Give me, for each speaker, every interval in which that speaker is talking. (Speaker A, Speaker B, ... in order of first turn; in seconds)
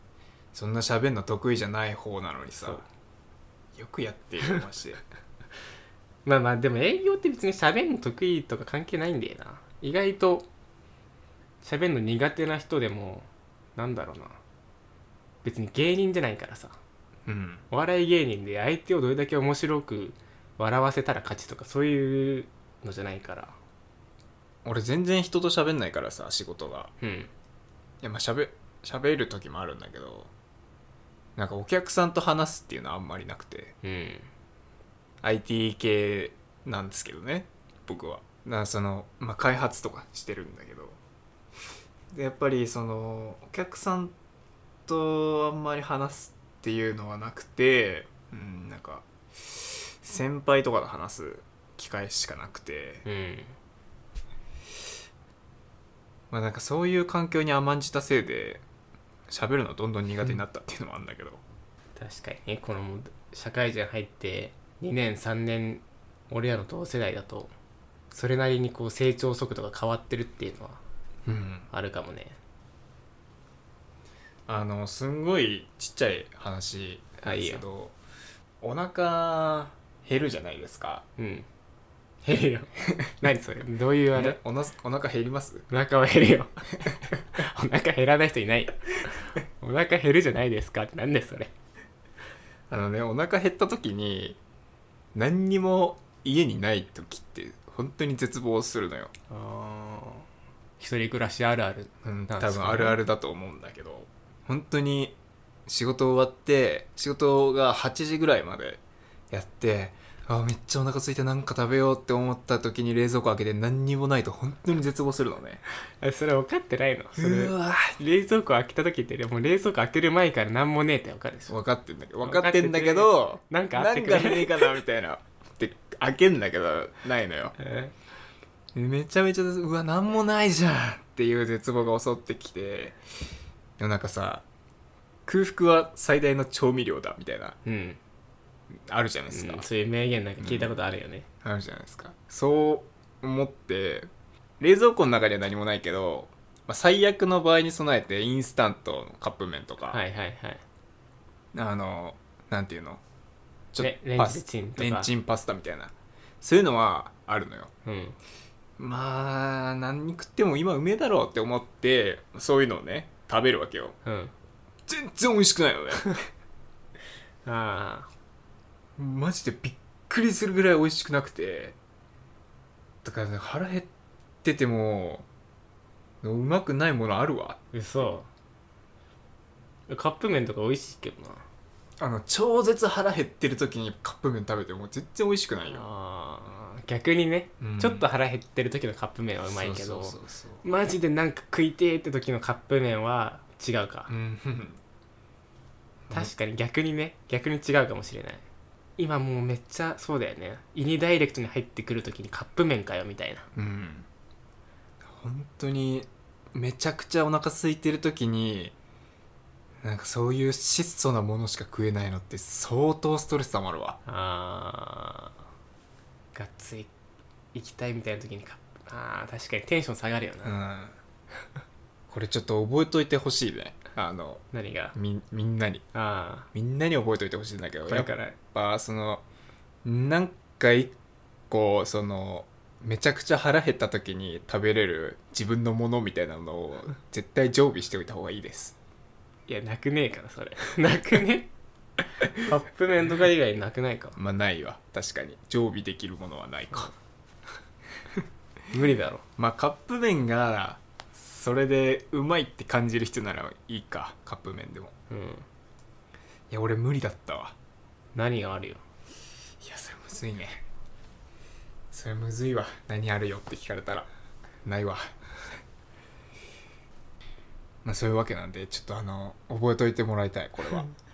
Speaker A: 0.5-2.8, 3.8-5.0, 17.2-17.6, 24.6-26.9, 28.0-30.3, 31.4-33.7, 35.2-41.0, 42.1-44.1, 44.9-53.0, 56.3-58.6, 59.3-61.4, 71.2-71.7, 74.5-78.0, 78.6-81.0, 84.1-85.7, 92.7-94.4, 95.1-99.1, 102.0-115.6, 117.2-118.0, 121.5-127.6, 128.8-133.0, 133.8-134.4, 135.2-137.6, 138.7-139.7, 140.4-140.8, 141.4-144.1, 144.6-150.0, 151.5-153.0, 153.7-157.7, 158.8-163.9, 164.9-166.1, 169.0-171.8, 173.0-173.9, 174.4-175.2, 176.2-177.6, 182.0-185.8, 187.6-188.1, 189.5-190.6, 194.1-194.8, 203.5-204.1, 205.0-208.8, 209.8-214.0, 220.4-221.0, 222.1-224.4, 224.9-225.8, 226.5-229.2, 229.8-230.9, 231.5-238.8, 244.2-246.9, 249.4-254.9, 256.5-257.5, 259.6-260.6, 261.9-264.1, 264.6-265.1, 267.9-270.9
Speaker B: 2.5-2.9, 6.2-10.5, 11.6-14.4, 15.4-16.8, 17.7-23.5, 27.0-27.3, 33.8-34.3, 53.0-53.5, 62.0-67.5, 68.1-70.8, 71.7-72.4, 77.2-77.6, 81.2-81.5, 82.2-84.4, 85.7-91.5, 99.3-100.3, 100.8-103.0, 116.0-121.6, 122.2-124.7, 127.6-128.0, 137.6-138.0, 139.3-141.2, 149.9-150.6, 153.8-155.1, 157.8-158.2, 164.0-164.3, 167.4-168.1, 177.7-178.3, 179.9-181.4, 185.6-194.1, 196.1-198.4, 199.0-203.5, 214.1-215.4, 216.3-216.9, 217.5-220.6, 224.5-224.9, 225.9-226.5, 227.8-228.4, 239.5-241.5, 242.4-244.2, 248.7-249.2, 255.1-255.5, 258.1-258.8